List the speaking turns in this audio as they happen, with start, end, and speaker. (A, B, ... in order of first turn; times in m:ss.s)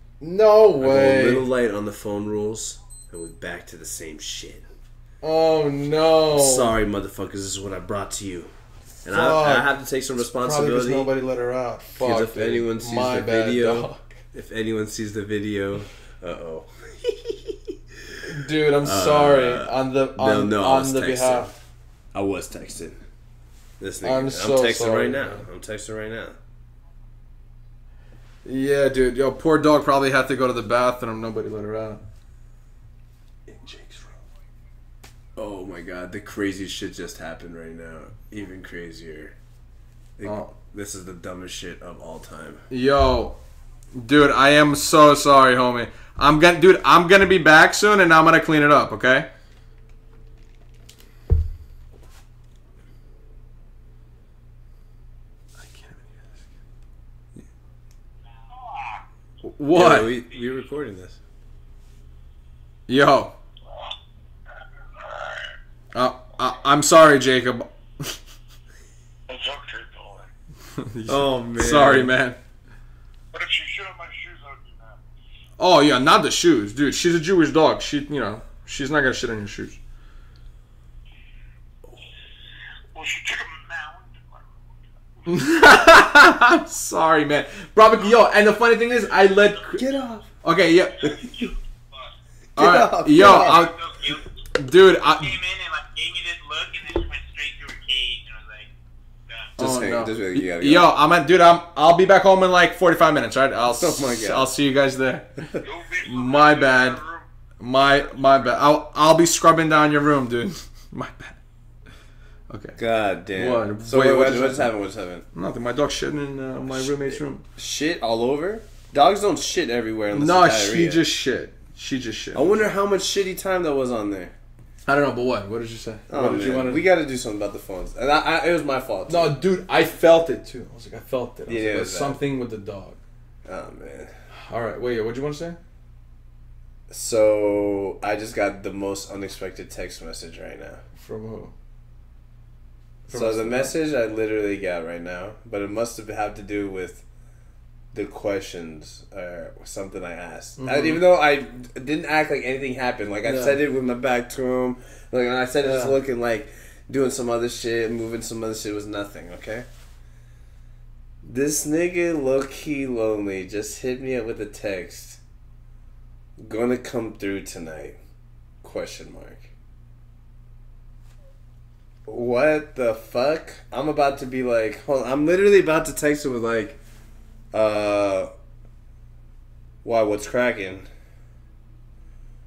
0:00.2-0:01.5 A
0:00.8-0:04.6 B
0:05.2-0:06.8 A
0:06.3-0:08.5 B
0:09.0-0:09.7 A
0:09.0-0:11.2 B
0:10.3-0:14.2 A
0:12.0-0:18.2 B
0:18.2-0:21.5 A
0:18.8-0:21.5 B
0:22.1-0:23.0 B
0:23.8-0:26.4 B
0:24.0-0:25.5 A
0:28.4-0:32.0 A
0:33.5-0:34.2 A
0:35.4-0:39.4 B
0:40.2-0:42.6 B
0:40.2-0:40.5 A
0:42.7-0:43.4 A
0:43.9-0:49.3 A
0:55.6-0:56.4 A
0:59.4-1:00.1 A
0:59.7-1:01.2 B
1:02.9-1:03.4 A
1:05.9-1:08.2 A
1:09.3-1:10.3 C
1:10.8-1:12.4 A
1:11.1-1:12.1 B
1:13.3-1:15.0 C
1:15.6-1:19.8 A
1:22.9-1:24.5 C
1:25.3-1:29.8 A
1:29.8-1:30.3 B
1:30.4-1:31.5 A
1:31.2-1:31.5 C
1:32.6-1:35.4 A
1:32.6-1:33.7 B
1:33.2-1:34.3 C
1:35.1-1:38.7 C
1:39.6-1:40.9 B
1:39.6-1:45.4 A
1:43.8-1:44.5 B
1:45.6-1:47.2 C
1:46.0-1:47.0 A
1:47.6-1:51.4 A
1:52.5-1:52.8 A
1:52.8-1:55.2 B
1:53.3-1:54.7 A
1:55.3-1:57.4 A
1:56.7-2:01.0 B
2:00.1-2:02.7 A
2:02.3-2:04.3 B
2:04.9-2:06.8 A
2:06.1-2:09.4 B
2:09.1-2:13.0 A
2:11.5-2:12.2 B
2:13.4-2:14.1 B
2:14.5-2:15.6 A
2:16.9-2:20.8 B
2:21.0-2:21.5 A
2:23.1-2:23.8 A
2:23.1-2:27.0 B
2:27.9-2:39.7 B
2:30.6-2:31.0 A
2:33.2-2:33.6 A
2:35.6-2:36.0 A
2:41.2-2:45.2 B
2:46.4-2:48.0 B
2:48.6-2:49.5 B
2:52.1-2:56.8 B
2:57.5-2:58.3 B
2:59.8-3:00.9 B